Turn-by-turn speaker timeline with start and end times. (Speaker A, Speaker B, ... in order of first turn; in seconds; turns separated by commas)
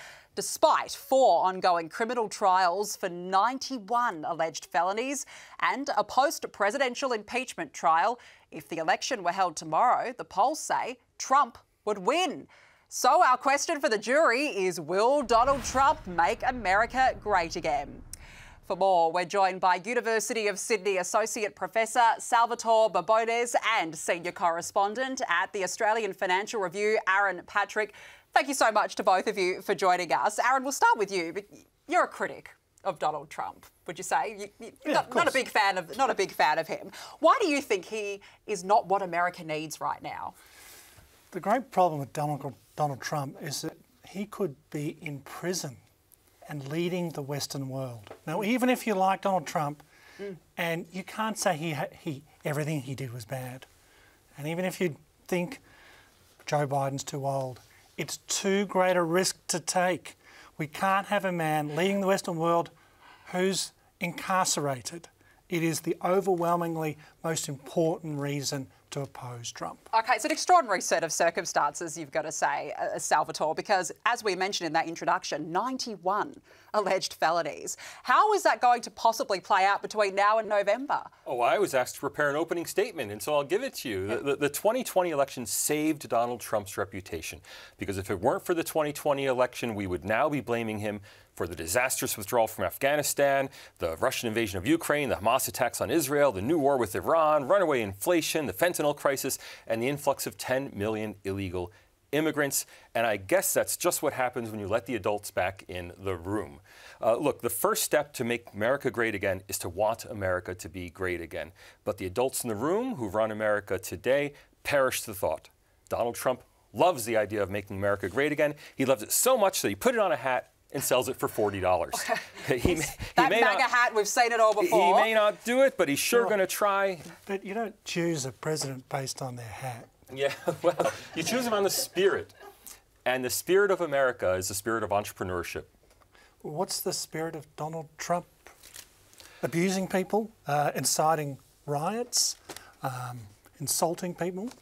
Speaker A: 0.3-18.0, Speaker A: 18.6-40.3, Speaker B: 34.8-35.4, Speaker B: 41.3-45.8, Speaker B: 46.5-49.8, Speaker B: 50.5-53.7, Speaker B: 54.4-55.6, Speaker B: 56.4-62.7, Speaker B: 63.2-69.8, Speaker A: 69.9-81.1, Speaker C: 81.2-123.7, Speaker A: 122.7-125.1, Speaker C: 124.6-127.1, Speaker B: 127.2-129.9, Speaker C: 130.1-132.3, Speaker C: 133.0-135.7, Speaker B: 136.4-138.5, Speaker B: 139.4-144.5